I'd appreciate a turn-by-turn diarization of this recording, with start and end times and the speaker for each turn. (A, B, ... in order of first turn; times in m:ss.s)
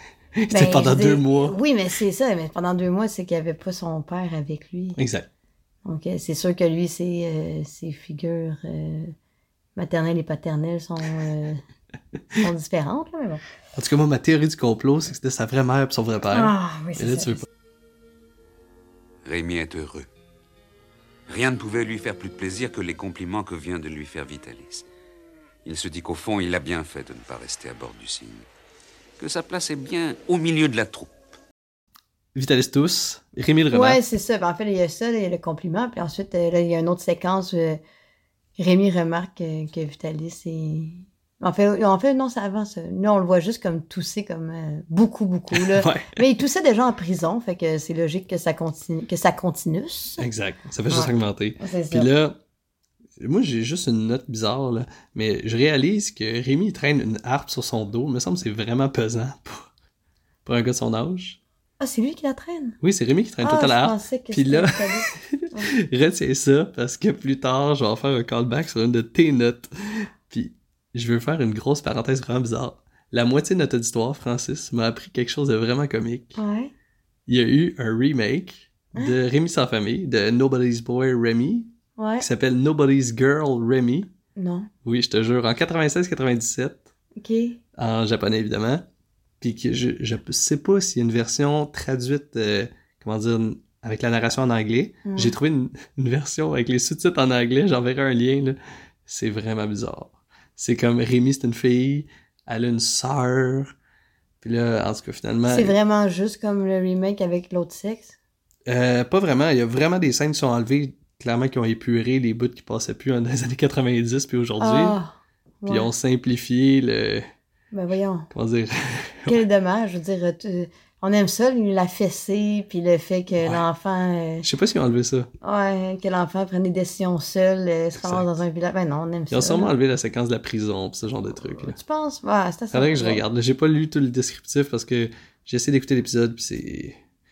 0:00.4-0:01.6 A
0:00.5-0:05.0 B
0:05.0-0:05.3 A
0:05.8-0:09.1 B
0:09.8-0:11.6 B
0:12.4-0:13.4 B
0:13.8-0:17.5 A
0:16.3-0:17.4 B
0:19.2-0:20.1 C
0:21.3-0:24.8 C
0:25.6-0:28.4 C
0:29.2-0:31.1 C
0:32.3-0:34.0 A
0:33.7-0:37.8 B
0:38.6-0:50.2 B
0:45.5-0:46.2 A
0:50.2-0:52.4 A
0:50.9-0:52.1 B
0:53.2-0:59.7 A
1:00.4-1:01.4 A
1:01.8-1:02.8 B
1:02.8-1:16.4 A
1:03.4-1:05.7 B
1:16.4-1:16.7 B
1:17.3-1:24.1 A
1:22.0-1:22.2 B
1:24.4-1:24.7 B
1:24.8-1:26.9 A
1:27.2-1:27.6 B
1:27.8-1:28.8 A
1:29.4-1:43.7 A
1:35.0-1:35.3 B
1:44.4-1:45.7 A
1:45.5-1:48.2 B
1:48.7-1:55.0 A
1:54.6-1:55.9 B
1:55.7-1:57.3 A
1:57.7-1:58.3 B
1:58.3-1:59.4 A
1:59.3-2:04.4 B
2:03.4-2:03.6 A
2:04.4-2:05.3 A
2:05.4-2:09.7 B
2:07.9-2:08.3 A
2:09.3-2:11.8 A
2:11.5-2:13.2 B
2:12.7-2:17.0 A